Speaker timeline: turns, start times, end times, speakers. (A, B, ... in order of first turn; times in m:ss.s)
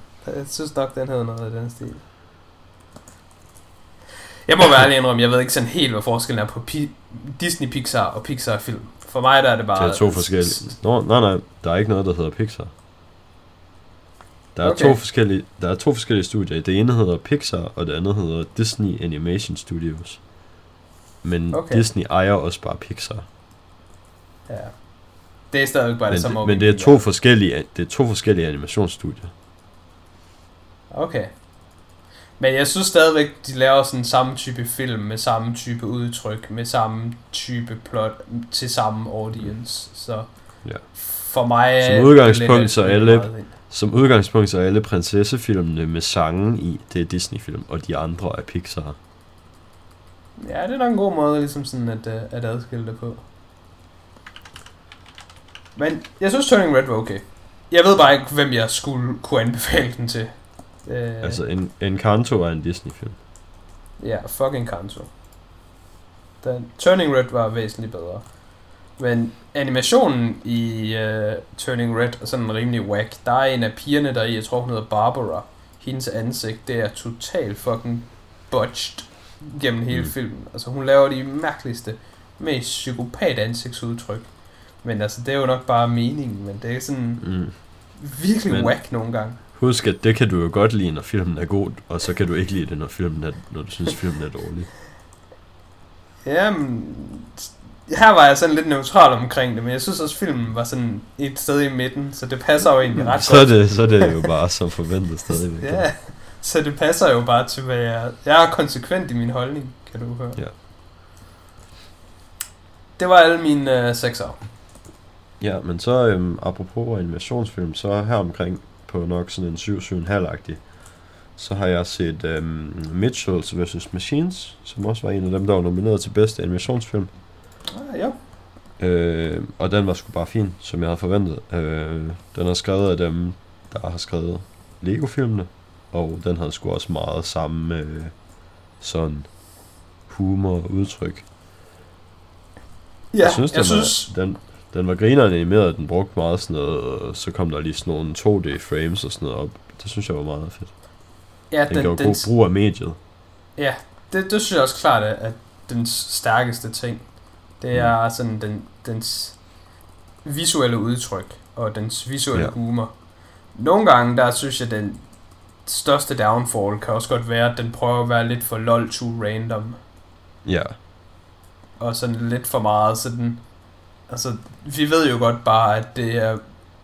0:00.2-0:02.0 A
0:04.5-0:10.8 A
0:09.8-0:12.7 B
0:14.6-0:20.2 B
0:14.6-0:15.0 A
0:21.2-0:23.2 B
0:21.5-0:21.9 A
0:24.5-0:27.0 A
0:26.1-0:29.3 B
0:30.9-0:31.4 A
0:32.4-0:43.5 A
0:41.8-0:49.0 B
0:50.4-0:53.2 A
0:55.8-1:01.4 A
1:01.2-1:03.2 B
1:04.0-1:05.1 A
1:06.4-1:08.4 A
1:09.0-1:29.4 A
1:27.2-1:27.6 B
1:28.5-1:28.8 B
1:29.4-1:34.7 B
1:36.2-1:44.1 A
1:43.0-1:45.9 B
1:45.6-1:50.4 A
1:53.0-1:54.4 A
1:55.4-2:00.7 B
2:01.3-2:07.1 B
2:07.7-2:08.2 A
2:08.8-2:18.2 B
2:18.8-2:19.4 B
2:20.1-2:21.3 B
2:23.1-2:24.1 A
2:23.2-2:30.8 B
2:31.5-2:32.3 A
2:31.7-2:33.0 B
2:33.6-2:39.6 A
2:40.2-2:43.0 A
2:43.5-2:45.1 A
2:45.6-2:49.8 A
2:50.4-2:50.8 B
2:51.8-2:53.4 A
2:54.1-2:56.4 A